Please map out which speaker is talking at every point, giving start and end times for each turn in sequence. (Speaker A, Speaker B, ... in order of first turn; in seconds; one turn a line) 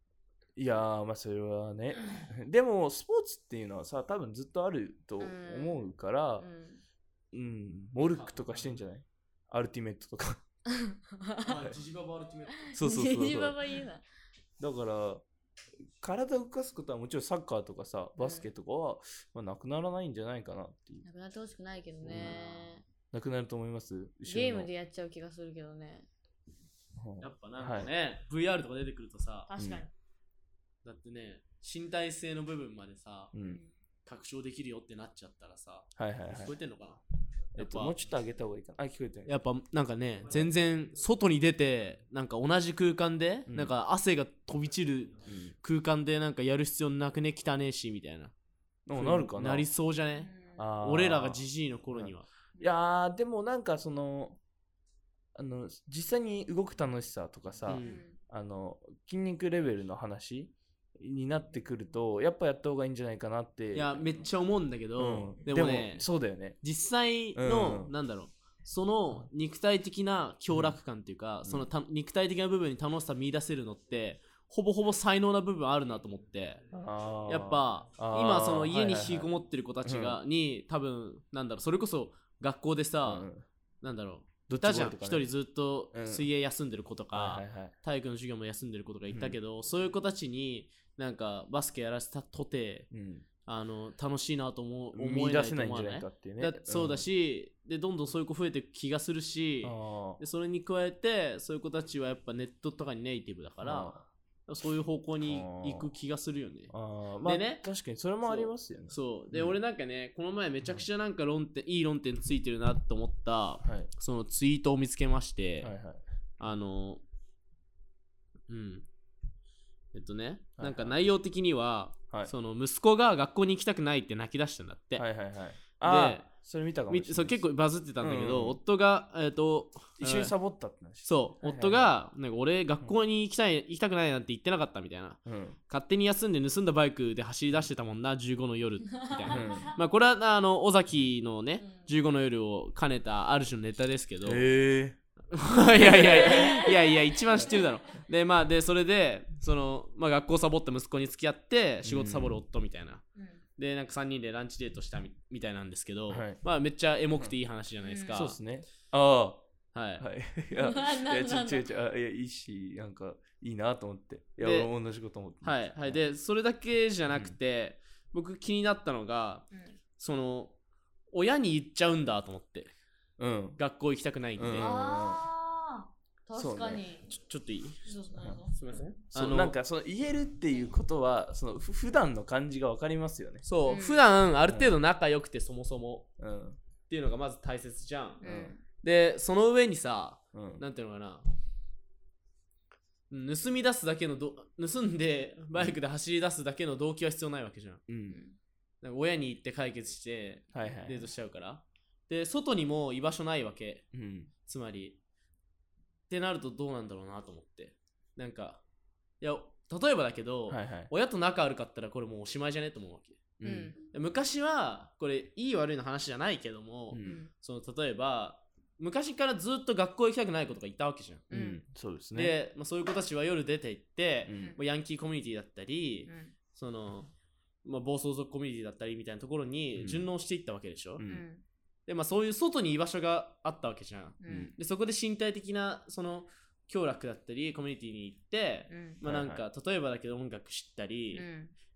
Speaker A: 0.6-6.5
Speaker B: 5.2-6.8
Speaker A: 7.3-10.4
Speaker C: 8.1-8.8
Speaker B: 10.7-11.6
Speaker C: 11.4-12.7
Speaker B: 12.6-14.0
Speaker A: 12.7-13.6
Speaker A: 14.6-15.2
Speaker A: 16.0-21.0
Speaker B: 18.2-18.5
Speaker B: 21.0-22.8
Speaker A: 22.0-22.4
Speaker C: 22.1-22.7
Speaker A: 23.1-24.7
Speaker B: 24.2-26.1
Speaker A: 26.9-27.9
Speaker C: 27.2-29.5
Speaker B: 29.5-29.9
Speaker A: 29.6-29.9
Speaker C: 30.8-33.3
Speaker A: 33.3-33.6
Speaker B: 33.4-33.7
Speaker C: 34.0-37.0
Speaker A: 36.0-36.5
Speaker C: 37.5-38.0
Speaker A: 37.5-39.4
Speaker C: 39.2-48.3
Speaker A: 43.5-43.7
Speaker A: 45.2-45.5
Speaker A: 48.9-49.7
Speaker C: 48.9-52.3
Speaker B: 50.2-50.6
Speaker A: 50.6-54.4
Speaker A: 55.3-64.0
Speaker C: 57.7-58.0
Speaker B: 57.8-58.2
Speaker C: 63.7-66.1
Speaker A: 65.0-66.6
Speaker C: 66.6-76.7
Speaker A: 67.3-67.9
Speaker A: 70.5-70.8
Speaker A: 76.7-79.3
Speaker C: 77.2-83.3
Speaker A: 79.8-80.2
Speaker A: 83.0-83.4
Speaker C: 83.8-92.9
Speaker A: 84.5-85.3
Speaker A: 85.9-86.3
Speaker A: 87.1-87.7
Speaker A: 89.1-89.4
Speaker A: 92.9-93.2
Speaker C: 93.5-107.7
Speaker A: 94.9-97.0
Speaker A: 99.6-100.2
Speaker A: 103.6-104.0
Speaker A: 105.2-105.9
Speaker A: 106.7-109.6
Speaker C: 108.2-115.7
Speaker A: 113.6-113.9
Speaker A: 115.6-116.0
Speaker C: 116.4-117.0
Speaker C: 118.5-118.9
Speaker C: 119.9-125.1
Speaker A: 120.6-121.0
Speaker A: 125.0-127.4
Speaker C: 125.8-126.3
Speaker C: 126.9-130.3
Speaker A: 128.0-128.6
Speaker A: 130.0-131.9
Speaker C: 131.0-144.5
Speaker A: 135.2-135.6
Speaker B: 139.0-139.7
Speaker A: 139.3-139.7
Speaker A: 144.2-145.0
Speaker C: 145.3-158.4
Speaker A: 145.8-146.4
Speaker B: 146.2-146.7
Speaker A: 151.8-152.4
Speaker A: 156.1-156.4
Speaker B: 157.8-158.3
Speaker A: 158.1-166.0
Speaker C: 159.7-160.0
Speaker B: 160.6-161.8
Speaker C: 164.4-164.7
Speaker C: 165.4-170.6
Speaker A: 167.1-167.3
Speaker C: 171.1-172.7
Speaker A: 173.2-173.6
Speaker C: 173.6-174.7
Speaker A: 174.4-175.2
Speaker B: 174.6-177.1
Speaker A: 176.3-176.8
Speaker C: 177.1-177.9
Speaker B: 177.8-178.5
Speaker C: 178.5-179.5
Speaker A: 179.1-183.4
Speaker C: 183.4-186.1
Speaker B: 183.7-184.0
Speaker A: 184.5-184.8
Speaker A: 186.2-186.6
Speaker C: 186.9-191.2
Speaker B: 188.2-188.6
Speaker A: 188.2-188.5
Speaker A: 190.3-190.6
Speaker C: 193.1-197.8
Speaker A: 197.9-198.2
Speaker B: 198.1-198.3
Speaker C: 198.8-203.9
Speaker A: 200.5-201.1
Speaker A: 203.9-204.3
Speaker C: 204.4-205.0
Speaker C: 206.1-208.6
Speaker C: 209.2-221.3
Speaker A: 210.5-210.9
Speaker A: 213.4-213.7
Speaker B: 213.4-213.8
Speaker A: 216.9-217.2
Speaker B: 217.0-217.3
Speaker B: 221.3-221.6
Speaker A: 221.3-222.3
Speaker C: 222.1-227.1
Speaker A: 224.2-224.6
Speaker B: 226.1-226.3
Speaker C: 227.6-231.0
Speaker A: 229.8-230.1
Speaker A: 231.0-231.2
Speaker B: 231.1-231.4
Speaker C: 231.9-241.3
Speaker B: 234.2-234.5
Speaker A: 234.3-234.5
Speaker B: 238.7-239.0
Speaker A: 239.0-239.4
Speaker B: 241.1-241.5